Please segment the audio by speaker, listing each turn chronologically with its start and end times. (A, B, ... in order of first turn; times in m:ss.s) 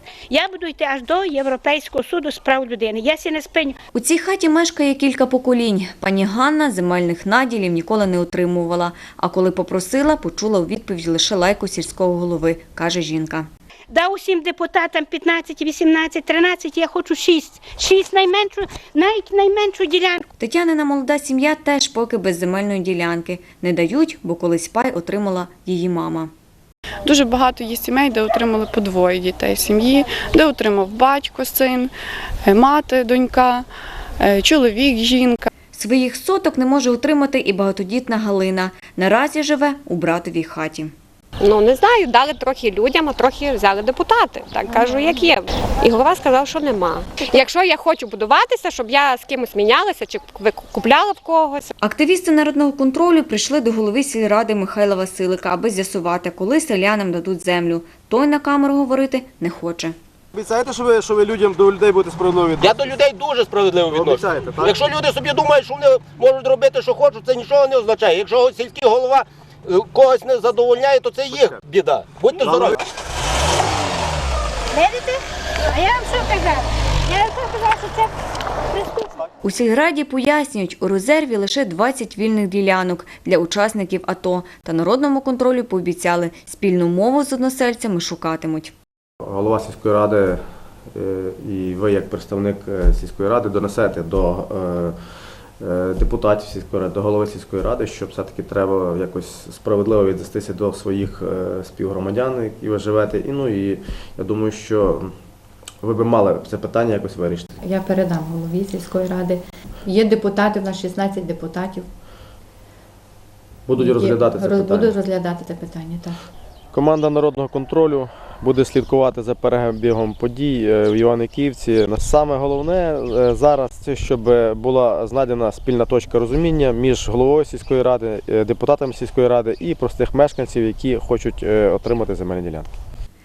0:00.3-0:03.8 A
0:03.9-0:13.5 B
0:13.9-0:20.2 A
0:20.4-0:26.3 B
0:27.0-0:31.9 C
0:32.4-0:33.6 C
0:34.2-0:35.5 C
0:35.7-0:40.9 B
0:41.4-0:51.7 D
0:51.8-1:00.0 B
1:00.3-1:02.8 E
1:02.6-1:12.8 F
1:03.9-1:04.8 E
1:12.5-1:12.7 E
1:14.7-1:18.1 A
1:18.7-1:19.1 A
1:19.4-1:28.7 B
1:29.2-1:30.4 E
1:30.9-1:35.0 E
1:35.6-1:45.1 E
1:45.8-1:47.5 E
1:47.6-1:51.9 G
1:53.7-1:54.9 E
1:53.8-1:56.2 G
1:56.7-2:12.7 E